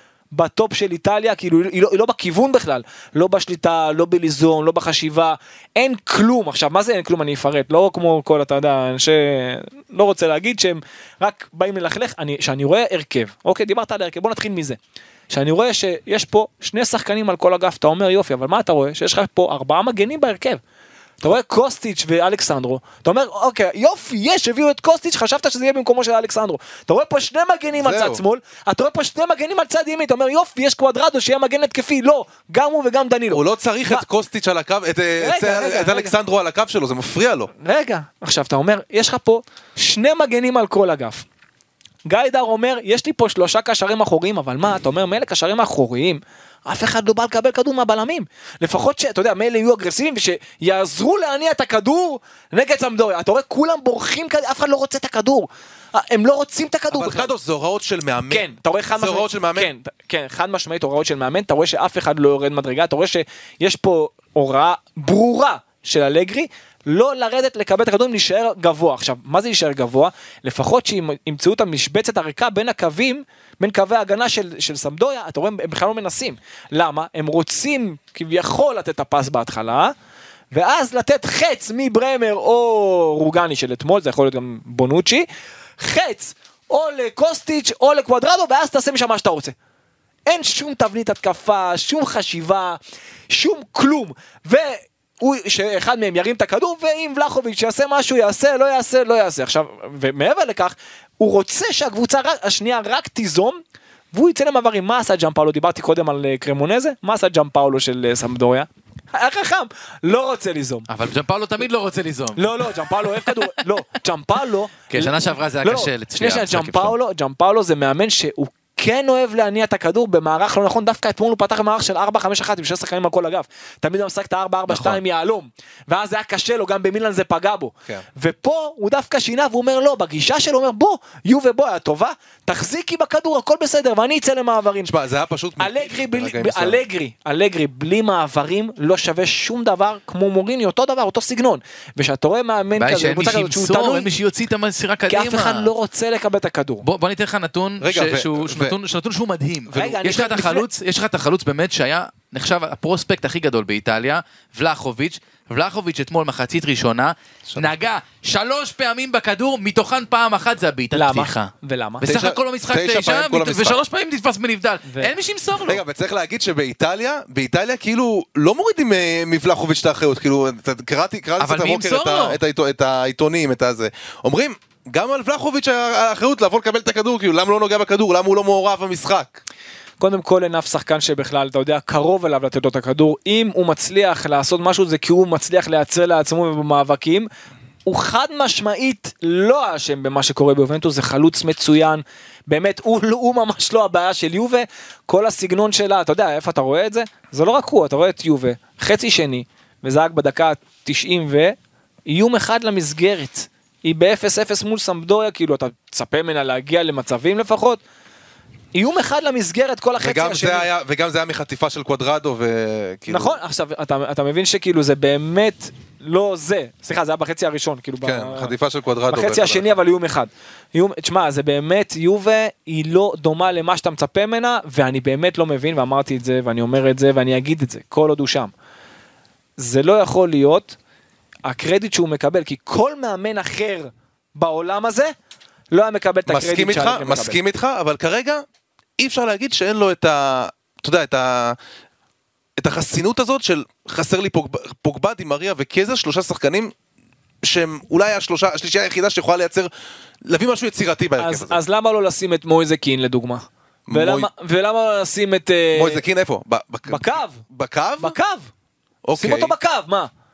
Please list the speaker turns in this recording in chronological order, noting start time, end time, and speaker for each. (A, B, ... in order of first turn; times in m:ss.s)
0:00.3-0:14.8 A
0:15.3-0:20.6 A
0:21.2-0:34.0 A
0:27.8-0:28.2 B
0:33.3-0:37.5 B
0:35.2-0:36.1 A
0:37.6-0:41.2 A
0:42.1-0:57.3 A
0:56.9-0:59.7 B
0:58.3-1:19.9 A
1:20.5-1:25.3 A
1:25.8-1:29.6 A
1:30.3-1:32.8 A
1:33.3-1:43.6 A
1:44.1-1:50.9 A
1:50.9-1:53.5 C
1:52.4-2:14.9 A
1:54.9-1:56.9 C
2:04.7-2:05.0 C
2:14.9-2:16.8 B
2:15.6-2:24.1 A
2:22.8-2:25.7 C
2:25.1-2:26.8 A
2:26.8-2:41.5 C
2:27.8-2:28.8 B
2:29.7-2:30.7 A
2:37.5-2:37.8 B
2:40.9-2:42.1 A
2:42.0-2:43.8 B
2:42.0-2:45.8 C
2:44.9-2:45.1 A
2:45.6-2:59.4 B
2:51.4-2:52.4 C
3:00.0-3:07.3 A
3:07.8-3:21.6 A
3:22.1-3:27.8 A
3:28.7-3:30.7 A
3:30.0-3:33.4 B
3:33.1-3:38.5 A
3:38.0-3:39.8 B
3:39.1-3:48.5 A
3:49.6-3:50.8 A
3:51.5-3:55.1 A
3:55.7-3:57.4 A
3:56.3-3:58.4 B
3:59.0-4:01.6 B
4:02.6-4:06.7 B
4:07.4-4:09.7 B
4:10.2-4:11.6 B
4:11.2-4:16.0 A
4:13.9-4:14.3 B
4:15.7-4:18.2 B
4:16.9-4:17.4 A
4:18.0-4:18.5 A
4:19.0-4:19.5 B
4:19.2-4:20.1 A